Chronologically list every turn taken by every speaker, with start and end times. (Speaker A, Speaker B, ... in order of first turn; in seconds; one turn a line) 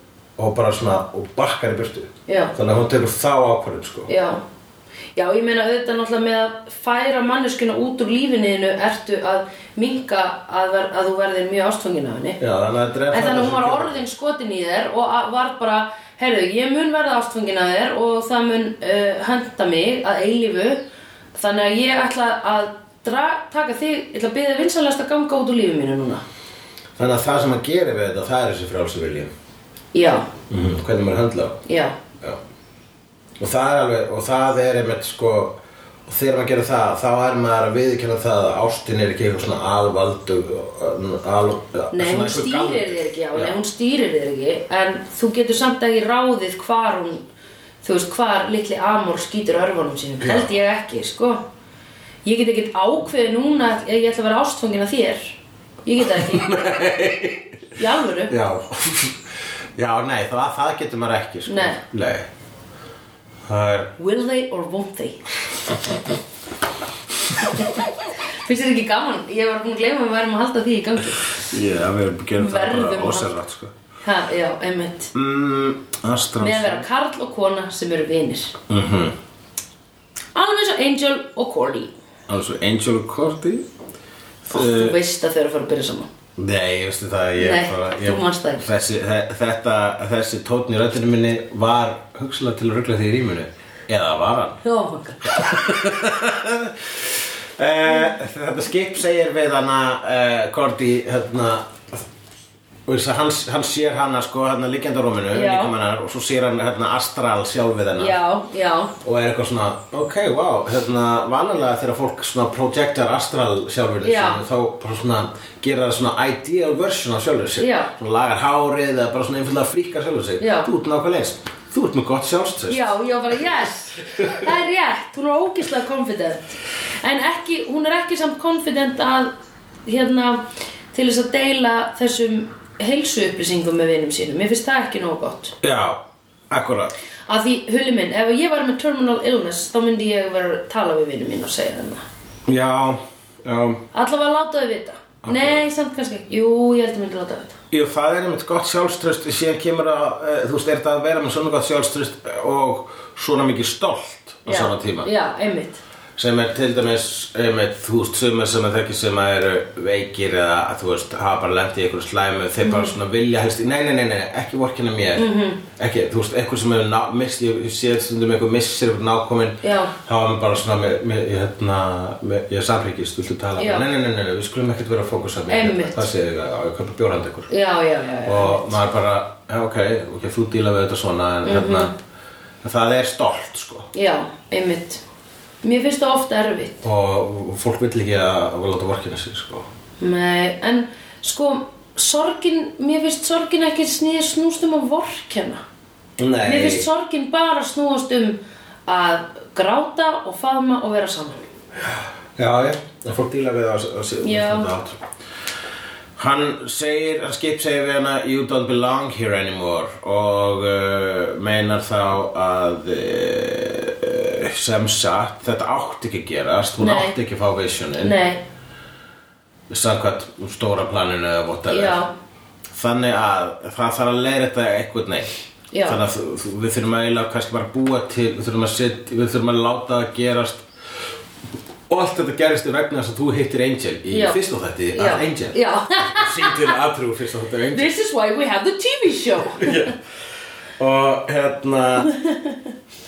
Speaker A: 0.4-4.1
Speaker B: 2.3-2.5
Speaker B: 4.1-4.4
Speaker B: 5.1-12.4
Speaker A: 12.4-14.0
Speaker B: 13.1-20.8
Speaker B: 21.3-26.2
Speaker A: 27.0-29.3
Speaker B: 29.9-30.3
Speaker A: 30.5-31.6
Speaker B: 31.6-32.0
Speaker A: 33.4-43.5
Speaker B: 41.9-47.3
Speaker B: 47.8-51.4
Speaker A: 50.2-50.5
Speaker B: 52.2-56.6
Speaker A: 56.1-57.5
Speaker B: 57.8-58.3
Speaker A: 58.3-59.2
Speaker A: 59.8-62.3
Speaker B: 61.5-61.8
Speaker A: 63.5-63.9
Speaker B: 64.0-65.2
Speaker B: 68.4-71.4
Speaker A: 71.4-73.7
Speaker B: 72.4-73.3
Speaker B: 74.0-75.1
Speaker A: 75.1-76.8
Speaker B: 76.4-78.5
Speaker A: 78.7-79.1
Speaker B: 80.3-81.9
Speaker A: 82.3-83.7
Speaker A: 84.4-85.0
Speaker B: 84.5-86.1
Speaker A: 86.3-94.6
Speaker B: 87.4-88.7
Speaker B: 94.6-95.4
Speaker A: 95.3-102.0
Speaker A: 102.8-108.2
Speaker B: 105.3-105.7
Speaker B: 108.0-108.9
Speaker A: 109.0-122.9
Speaker B: 114.0-114.4
Speaker B: 117.6-117.9
Speaker B: 120.4-120.7
Speaker B: 122.7-129.3
Speaker B: 129.8-135.5
Speaker A: 135.6-136.9
Speaker B: 137.3-142.0
Speaker A: 142.5-143.8
Speaker B: 143.9-147.6
Speaker A: 145.2-145.6
Speaker A: 147.7-155.1
Speaker B: 154.4-155.8
Speaker A: 156.2-177.5
Speaker B: 162.6-162.9
Speaker B: 165.2-165.6
Speaker B: 169.6-169.9
Speaker B: 173.6-173.8
Speaker B: 175.5-176.1
Speaker B: 177.5-178.8
Speaker A: 178.2-181.9
Speaker B: 181.4-181.9
Speaker A: 182.6-183.9
Speaker B: 183.9-185.0
Speaker B: 185.6-186.8
Speaker A: 186.8-189.7
Speaker B: 190.0-195.6
Speaker A: 196.2-196.8
Speaker B: 196.4-201.4
Speaker A: 201.8-205.0
Speaker B: 204.2-204.7
Speaker A: 206.2-218.2
Speaker B: 216.8-217.1
Speaker B: 218.0-218.4
Speaker A: 219.7-222.0
Speaker B: 221.7-222.1
Speaker A: 222.7-225.3
Speaker B: 225.7-226.0
Speaker A: 225.8-230.7
Speaker A: 231.9-237.9
Speaker B: 234.1-234.4
Speaker B: 234.9-236.7
Speaker B: 237.7-239.9
Speaker A: 239.6-239.9
Speaker A: 240.8-242.1
Speaker B: 242.1-242.6